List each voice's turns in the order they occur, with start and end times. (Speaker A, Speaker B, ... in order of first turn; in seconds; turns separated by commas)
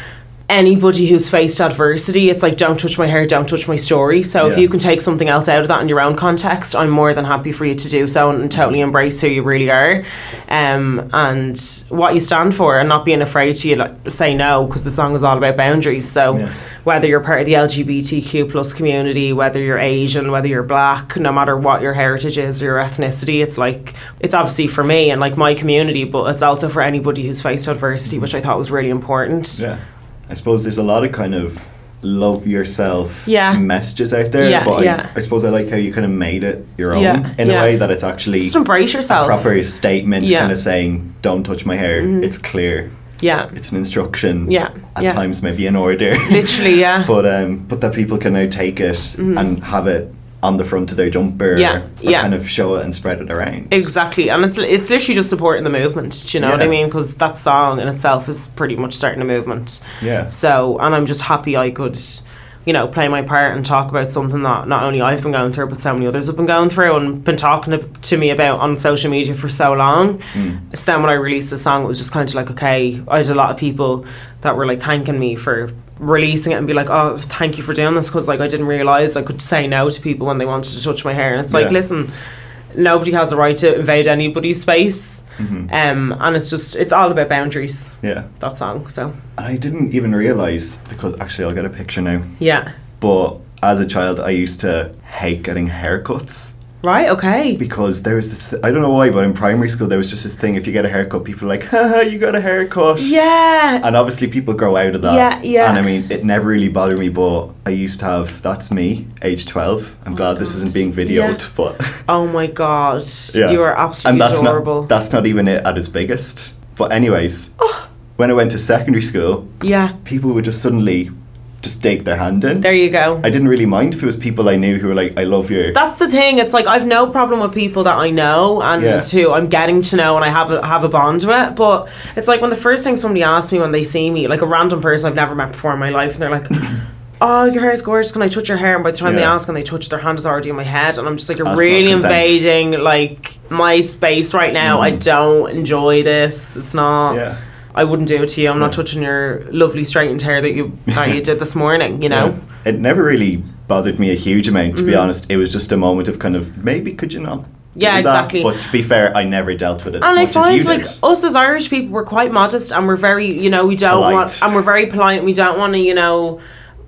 Speaker A: 0.5-29.6, Speaker B: 4.4-4.7, Speaker B: 29.5-42.9, Speaker A: 33.2-33.6, Speaker A: 34.4-35.1, Speaker A: 36.9-37.8, Speaker A: 38.4-39.5, Speaker A: 40.2-40.5, Speaker A: 41.9-42.3, Speaker A: 43.2-43.5, Speaker B: 43.5-53.9, Speaker A: 44.5-45.2, Speaker A: 46.3-47.1, Speaker A: 49.2-49.5, Speaker A: 51.5-52.3, Speaker A: 53.7-82.1, Speaker B: 56.4-56.7, Speaker B: 60.0-60.3, Speaker B: 70.3-70.6, Speaker B: 81.5-81.8, Speaker A: 82.7-89.1, Speaker B: 85.4-85.7, Speaker B: 88.0-88.3, Speaker B: 89.4-92.3, Speaker A: 92.4-92.7, Speaker B: 93.0-96.5, Speaker A: 96.8-97.6, Speaker B: 97.6-103.2, Speaker A: 103.0-103.8, Speaker B: 103.8-112.0, Speaker A: 105.0-105.8, Speaker A: 110.3-111.4, Speaker A: 112.1-114.9, Speaker B: 113.3-117.5, Speaker B: 118.2-121.1, Speaker A: 119.6-119.9, Speaker B: 121.6-125.8, Speaker A: 122.6-123.3, Speaker A: 125.7-136.7, Speaker B: 128.8-129.1, Speaker A: 137.2-147.2, Speaker B: 139.0-139.3, Speaker B: 141.4-142.4, Speaker B: 144.6-145.0, Speaker B: 147.1-147.4, Speaker A: 147.7-152.4, Speaker B: 152.1-161.0, Speaker A: 154.7-155.1, Speaker A: 157.8-158.5, Speaker A: 160.0-166.4, Speaker B: 163.9-164.5